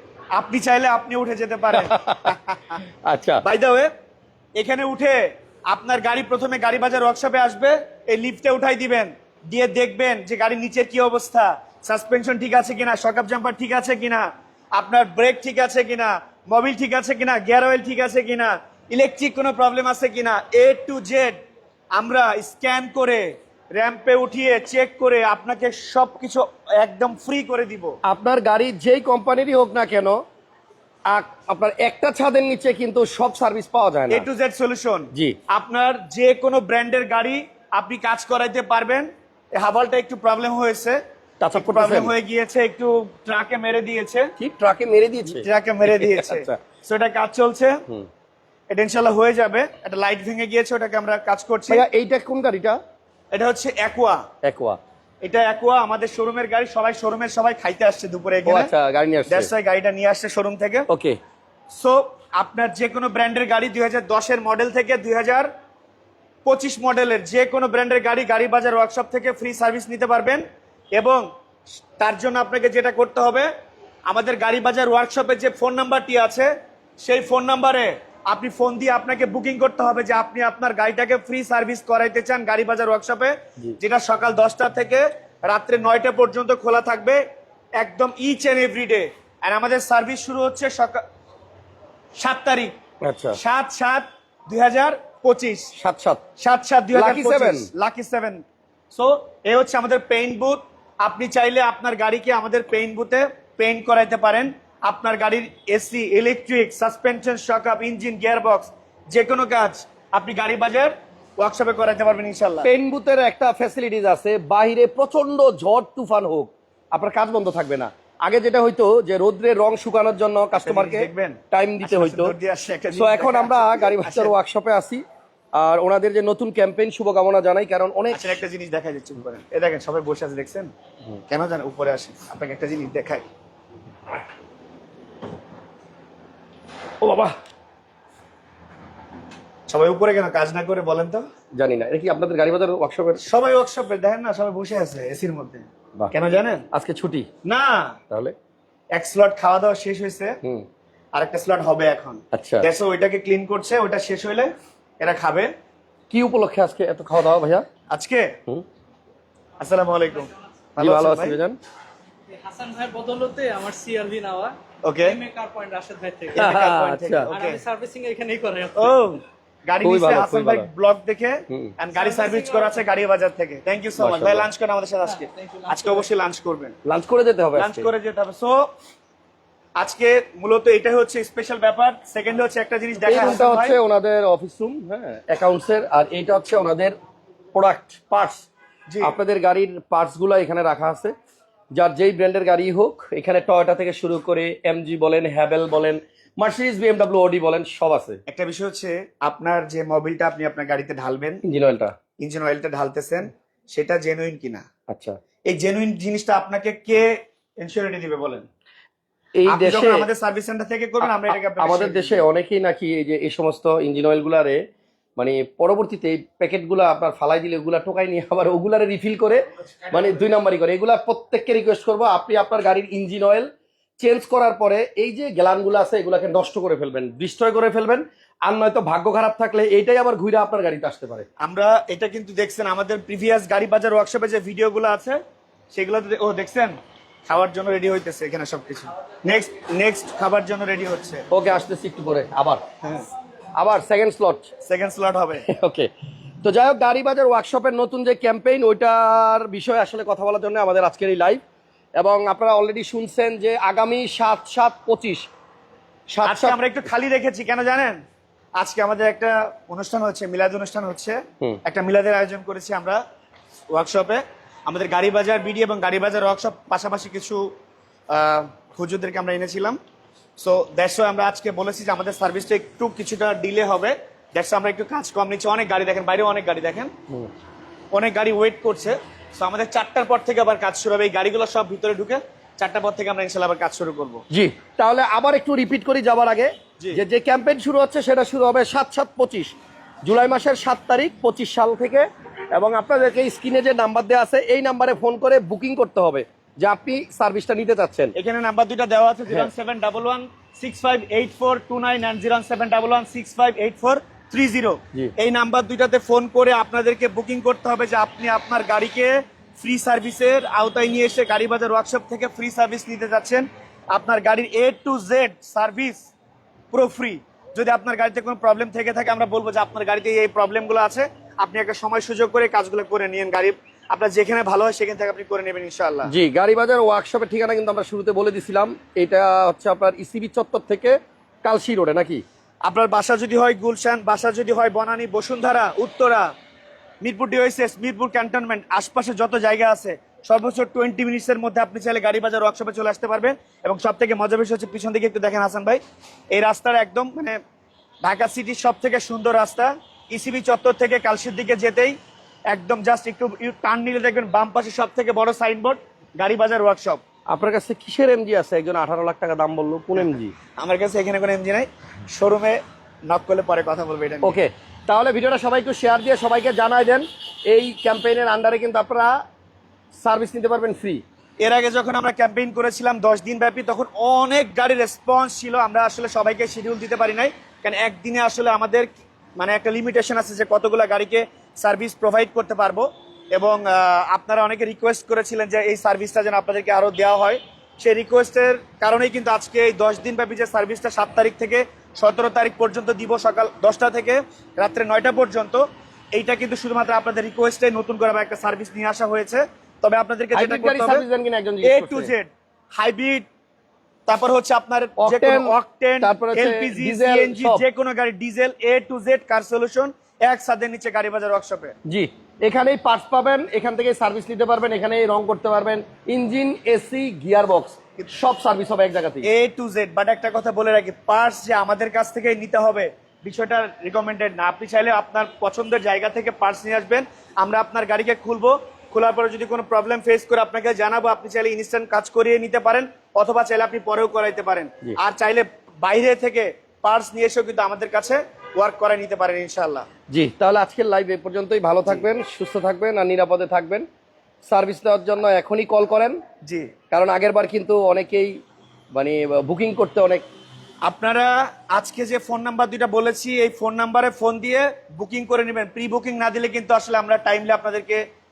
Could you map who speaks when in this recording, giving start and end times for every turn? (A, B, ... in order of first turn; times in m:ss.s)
0:00.3-0:02.8 A
0:01.7-0:02.3 B
0:03.0-0:03.4 B
0:03.4-0:03.9 A
0:04.6-0:21.4 A
0:21.9-0:28.0 A
0:28.0-0:30.2 B
0:31.1-0:34.3 B
0:34.1-0:41.0 A
0:41.4-0:42.1 B
0:41.5-0:44.3 A
0:44.4-0:46.6 B
0:45.2-0:47.8 A
0:48.7-0:51.8 A
0:51.7-0:52.8 B
0:53.3-0:54.2 A
0:54.4-0:54.8 B
0:55.2-0:58.7 A
0:58.4-0:59.5 B
0:59.3-1:00.8 A
1:00.9-1:01.2 B
1:01.7-1:05.5 A
1:06.4-1:10.4 A
1:11.0-1:11.2 A
1:12.0-1:13.5 A
1:14.1-1:27.2 A
1:27.8-1:31.0 A
1:32.2-1:32.8 A
1:33.0-1:33.4 B
1:33.4-1:35.7 A
1:35.7-1:36.2 B
1:36.4-1:52.7 A
1:36.9-1:37.7 B
1:52.6-2:02.3 B
2:00.6-2:04.3 A
2:02.9-2:05.0 B
2:05.6-2:08.4 B
2:08.1-2:10.7 A
2:11.3-2:13.2 A
2:17.0-2:17.3 B
2:19.7-2:21.2 A
2:21.6-2:23.2 B
2:23.2-2:26.6 A
2:26.7-2:27.3 B
2:27.4-2:28.0 A
2:28.9-2:30.4 A
2:31.1-2:35.5 A
2:32.3-2:32.7 B
2:36.1-2:37.6 B
2:37.9-2:38.3 A
2:39.6-2:41.4 A
2:40.8-2:41.6 B
2:42.3-2:46.5 C
2:44.8-2:45.2 A
2:46.3-2:47.6 A
2:46.4-2:47.3 B
2:47.3-2:49.0 C
2:48.8-2:56.8 A
2:49.8-2:50.7 B
2:51.5-2:51.7 B
2:52.0-2:52.8 C
2:54.0-2:54.5 B
2:55.2-2:56.0 C
2:56.8-2:57.9 B
2:57.5-2:58.7 A
2:59.8-3:03.8 A
3:03.0-3:07.0 B
3:07.5-3:08.4 B
3:08.9-3:09.1 A
3:09.0-3:11.1 B
3:11.7-3:18.2 B
3:18.3-3:21.4 A
3:21.4-3:21.9 B
3:22.2-3:24.6 A
3:24.9-3:25.2 B
3:25.5-3:28.5 A
3:29.4-3:30.1 B
3:29.5-3:32.3 A
3:31.0-3:34.6 B
3:35.2-3:43.5 B
3:44.0-3:51.2 B
3:51.4-3:55.2 A
3:55.7-3:56.8 A
3:57.3-4:01.2 A
4:01.3-4:02.6 B
4:03.6-4:04.5 B
4:04.6-4:05.4 A
4:05.5-4:05.9 B
4:06.4-4:11.4 B
4:12.0-4:15.2 B
4:16.1-4:16.6 B
4:16.2-4:18.0 A
4:18.6-4:23.0 A
4:23.7-4:27.5 A
4:28.1-4:29.8 A
4:30.4-4:36.9 A
4:37.9-4:44.2 A
4:44.3-4:58.1 B
4:58.2-5:16.1 A
5:16.7-5:26.1 A
5:26.0-5:32.2 B
5:32.6-5:36.3 A
5:37.0-5:45.8 A
5:46.3-5:47.4 A
5:48.0-5:52.0 A
5:52.5-5:57.0 A
5:57.3-6:00.3 B
6:00.6-6:04.4 A
6:04.2-6:09.2 B
6:09.9-6:11.0 B
6:11.4-6:41.0 A
6:40.3-6:42.1 B
6:41.6-6:43.2 A
6:44.1-6:51.7 A
6:45.0-6:47.6 B
6:51.9-6:59.3 B
6:59.2-7:19.9 A
7:20.1-7:23.8 B
7:24.4-7:26.2 B
7:26.4-7:26.7 A
7:26.9-7:28.4 B
7:28.9-7:30.2 B
7:30.8-7:38.0 A